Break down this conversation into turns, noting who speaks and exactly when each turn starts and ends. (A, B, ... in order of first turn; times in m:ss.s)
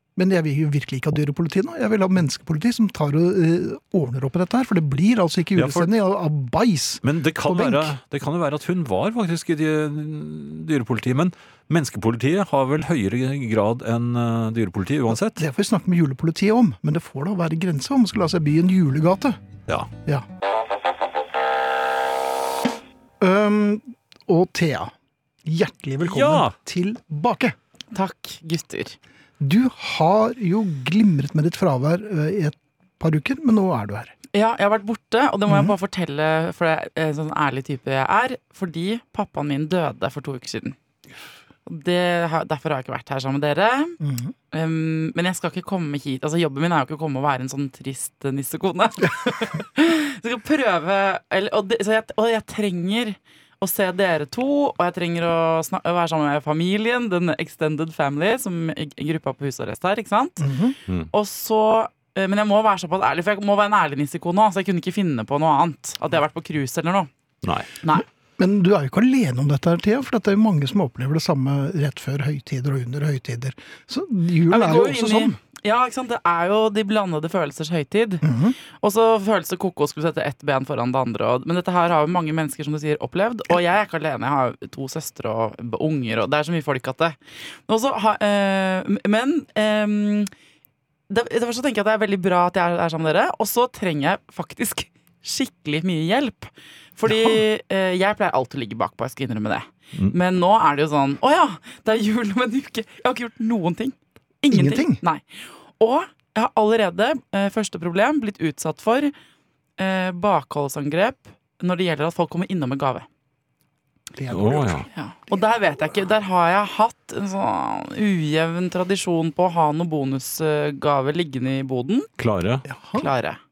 0:00.2-0:07.9 A
0:05.6-0:05.9 B
0:07.0-0:15.4 B
0:15.1-0:19.4 A
0:23.2-0:24.9 A
0:25.5-0:27.6 A
0:26.0-0:26.6 B
0:27.9-0:29.0 C
0:29.4-0:34.1 A
0:34.3-0:40.8 C
0:35.5-0:35.8 A
0:41.7-0:44.0 C
0:44.0-0:44.3 A
0:44.5-1:00.5 C
1:00.4-1:00.8 A
1:01.1-1:07.1 C
1:07.4-1:07.7 B
1:08.4-1:15.4 A
1:14.5-1:30.3 C
1:18.2-1:18.6 A
1:31.1-1:49.1 C
1:37.1-1:37.4 A
1:44.5-1:45.0 A
1:49.8-1:53.1 C
1:54.1-1:55.4 A
1:54.3-1:54.9 B
1:54.9-2:02.1 C
2:02.2-2:02.6 B
2:02.6-2:03.1 A
2:03.0-2:03.4 C